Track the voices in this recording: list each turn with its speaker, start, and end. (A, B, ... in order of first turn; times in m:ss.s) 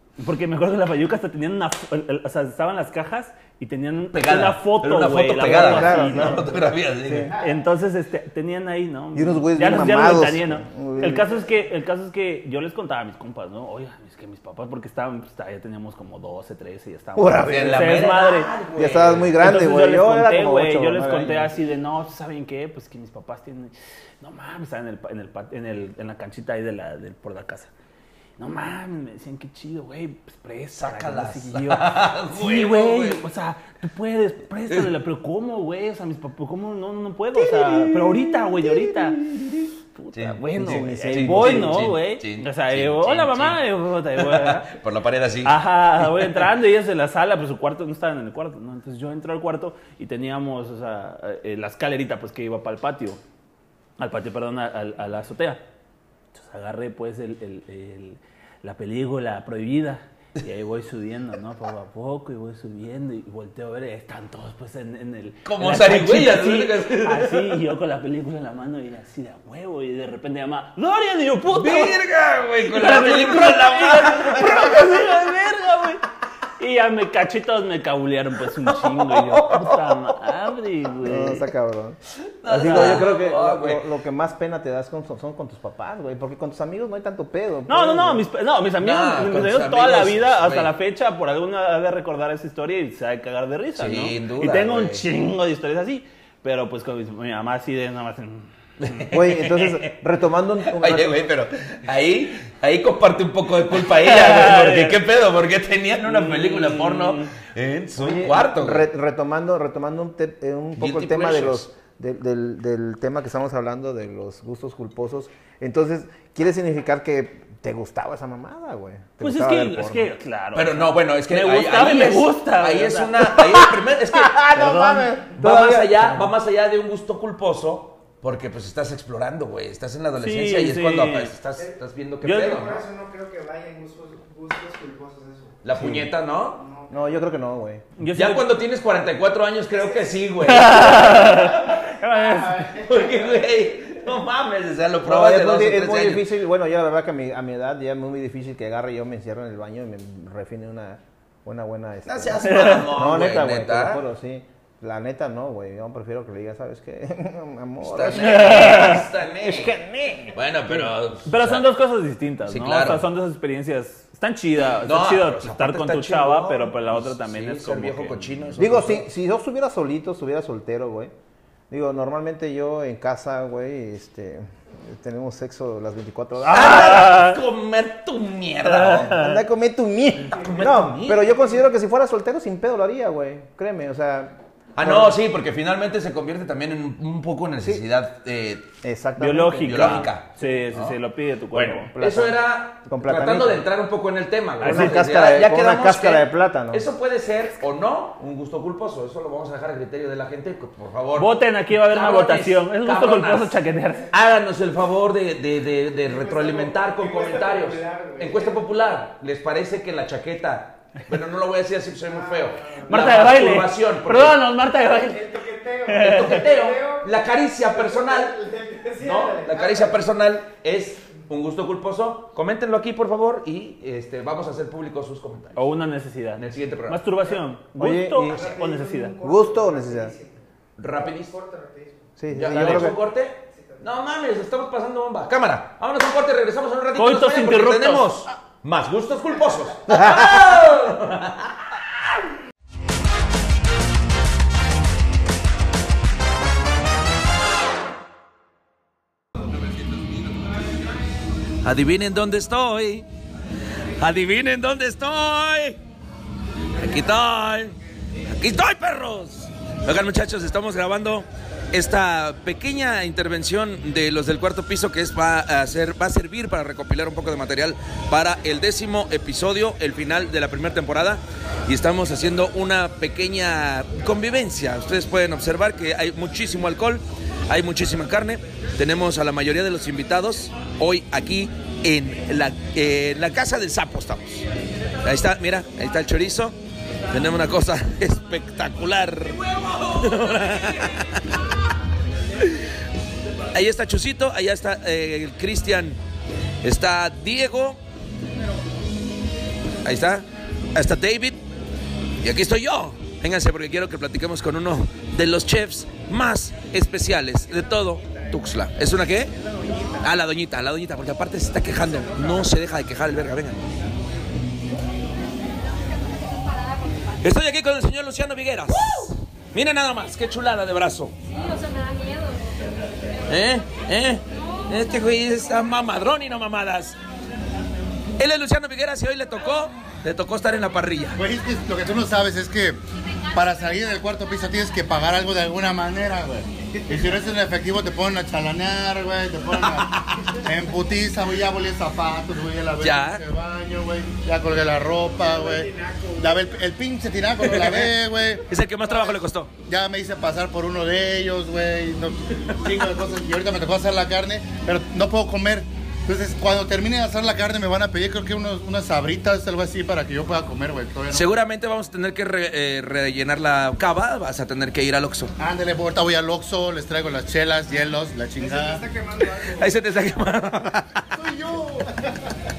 0:00.2-0:06.4 A
0:04.1-0:07.3 B
0:05.4-0:07.3 C
0:07.3-0:18.5 A
0:09.1-0:11.4 C
0:17.2-0:18.2 C
0:17.4-0:19.4 B
0:18.7-0:21.5 C
0:19.4-0:27.7 A
0:28.4-0:44.7 A
0:30.7-0:33.2 B
0:37.7-0:38.0 B
0:39.2-0:39.5 B
0:40.1-0:43.6 B
0:40.6-0:41.9 C
0:44.2-0:46.3 B
0:45.4-0:53.2 A
0:54.0-0:55.6 A
0:56.3-1:12.0 A
1:05.4-1:07.5 B
1:11.5-1:15.1 B
1:12.6-1:16.0 A
1:16.6-1:21.4 A
1:18.7-1:20.0 B
1:21.0-1:28.2 C
1:22.4-1:23.8 B
1:22.6-1:23.1 A
1:27.7-1:38.5 A
1:28.8-1:30.7 B
1:33.8-1:35.0 B
1:38.8-1:39.9 B
1:39.1-1:41.2 C
1:40.7-1:48.9 B
1:44.0-1:45.0 A
1:46.0-1:47.3 A
1:48.0-2:00.1 C
1:50.8-1:51.7 B
1:59.2-2:03.5 A
2:00.5-2:12.8 B
2:04.1-2:06.4 C
2:04.5-2:05.0 A
2:10.2-2:11.3 A
2:12.2-2:12.6 A
2:12.3-2:15.9 D
2:15.6-2:16.6 B
2:15.7-2:16.1 C
2:16.5-2:17.0 D
2:16.9-2:17.8 C
2:18.0-2:18.4 A
2:18.1-2:21.8 B
2:19.7-2:20.1 D
2:20.5-2:22.6 A
2:20.8-2:23.4 D
2:22.8-2:26.2 B
2:25.0-2:40.9 C
2:32.0-2:34.0 B
2:32.5-2:32.8 A
2:37.8-2:39.8 B
2:38.2-2:39.0 A
2:40.3-2:41.7 B
2:41.3-2:48.4 A
2:42.4-2:43.1 B
2:44.8-2:49.1 B
2:48.6-2:51.1 C
2:51.7-2:57.0 C
2:56.5-2:57.4 A
2:56.5-2:59.2 B
2:58.6-2:59.4 A
2:58.9-3:05.2 C
3:00.3-3:01.3 B
3:04.7-3:08.7 B
3:08.8-3:10.1 C
3:09.2-3:11.9 A
3:09.6-3:11.0 B
3:11.5-3:23.6 B
3:11.9-3:13.6 C
3:14.6-3:15.0 A
3:14.6-3:16.9 C
3:21.2-3:24.1 A
3:24.1-3:34.4 B
3:26.0-3:28.6 D
3:32.1-3:33.0 D
3:32.9-3:35.2 A
3:34.9-3:37.1 D
3:35.9-3:36.4 A
3:36.0-3:38.4 B
3:37.7-3:40.0 D
3:39.0-3:45.6 B
3:45.6-3:49.1 A
3:46.4-3:47.0 B
3:47.8-3:48.5 C
3:48.2-3:50.4 D
3:49.2-3:50.1 C
3:50.8-3:51.4 B
3:51.0-3:52.1 D
3:52.2-3:53.0 C
3:52.3-4:01.6 B
3:53.5-3:53.8 D
3:57.0-3:58.0 A
3:59.9-4:00.4 C
4:11.6-4:13.0 B
4:14.0-4:15.8 B
4:16.8-4:17.7 B
4:18.3-4:44.4 B
4:45.0-4:46.6 B
4:47.1-4:51.2 B
4:53.5-4:56.0 B
4:56.6-4:57.8 B
4:59.8-5:01.4 B
5:02.2-5:09.3 B
5:07.8-5:08.3 D
5:09.4-5:10.1 D
5:10.0-5:13.6 B
5:11.8-5:12.5 D
5:15.7-5:17.4 E
5:17.2-5:21.2 B
5:21.2-5:22.5 E
5:23.3-5:27.0 B
5:24.3-5:25.0 E
5:28.2-5:31.2 B
5:31.2-5:32.8 F
5:33.3-5:48.4 F
5:39.6-5:40.4 B
5:42.8-5:43.2 B
5:45.2-5:46.6 D
5:48.5-5:49.5 B
5:49.6-6:01.3 F
6:01.1-6:05.3 B
6:05.4-6:08.8 F
6:08.4-6:09.7 D
6:09.5-6:11.2 B
6:11.2-6:12.0 D